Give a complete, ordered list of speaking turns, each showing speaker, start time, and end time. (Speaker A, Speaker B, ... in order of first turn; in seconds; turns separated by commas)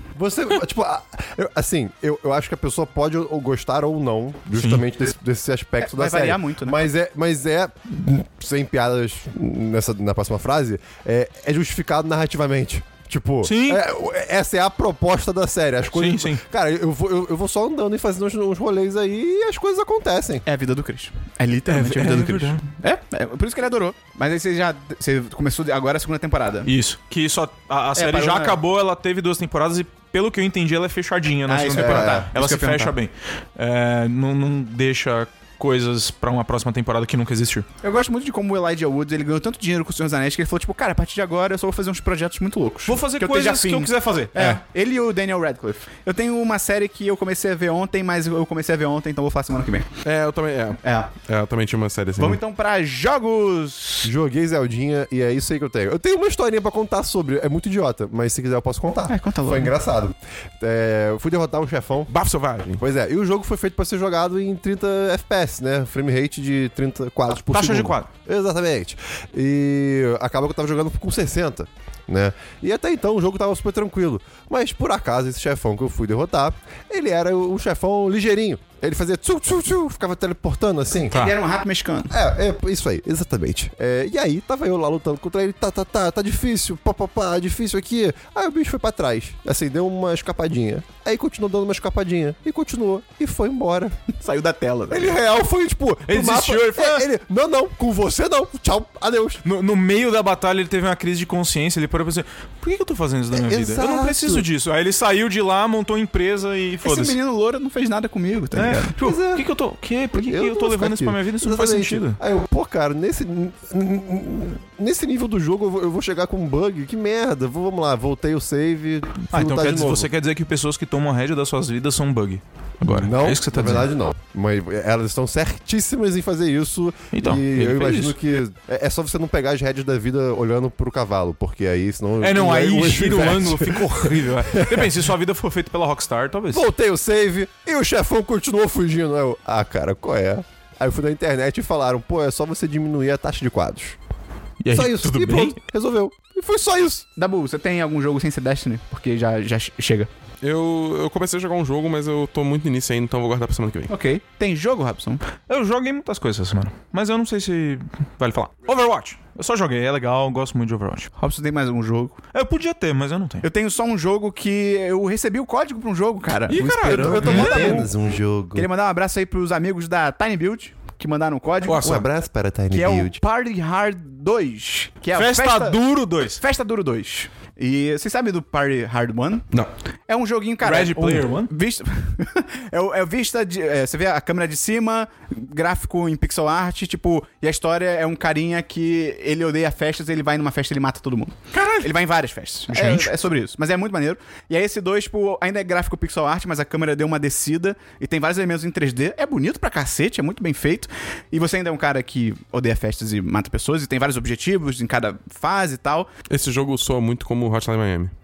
Speaker A: 0.1-20.4, Speaker B: 4.5-4.8, Speaker C: 5.8-6.8, Speaker B: 13.4-13.8, Speaker B: 15.9-16.4, Speaker C: 20.4-26.7, Speaker B: 21.7-22.6, Speaker B: 26.7-37.7, Speaker C: 28.0-28.6, Speaker C: 31.5-32.9, Speaker A: 31.7-32.3, Speaker C: 37.8-49.9, Speaker B: 42.9-44.6, Speaker D: 50.0-52.4, Speaker C: 50.8-51.1, Speaker C: 52.2-54.1, Speaker A: 54.0-62.1, Speaker C: 59.1-59.7, Speaker D: 62.1-62.8, Speaker A: 62.8-81.3, Speaker B: 67.5-68.1, Speaker C: 81.1-82.2, Speaker A: 82.1-94.0, Speaker C: 94.1-95.2, Speaker A: 94.9-99.4, Speaker B: 96.1-97.1, Speaker B: 99.4-107.2, Speaker A: 103.3-104.5, Speaker C: 106.8-109.0, Speaker B: 108.5-112.2, Speaker A: 109.0-109.5, Speaker A: 110.1-120.1, Speaker B: 119.3-123.9, Speaker A: 122.8-135.0, Speaker B: 127.1-128.2, Speaker B: 132.2-136.7, Speaker A: 136.5-144.0, Speaker B: 144.6-145.6, Speaker A: 144.7-147.1, Speaker C: 147.2-150.1, Speaker D: 150.4-153.9, Speaker C: 153.9-155.2, Speaker B: 155.5-161.1, Speaker C: 161.2-162.2, Speaker B: 162.3-163.5, Speaker C: 163.4-167.9, Speaker D: 166.5-167.8, Speaker A: 166.8-168.7, Speaker B: 167.2-167.7, Speaker C: 168.6-172.0, Speaker D: 171.7-172.1, Speaker A: 171.8-173.2, Speaker C: 172.7-175.8, Speaker B: 175.1-176.4, Speaker C: 176.3-179.5, Speaker C: 180.1-206.1, Speaker B: 180.6-181.5, Speaker B: 191.5-191.9, Speaker B: 192.7-193.1, Speaker D: 206.3-208.1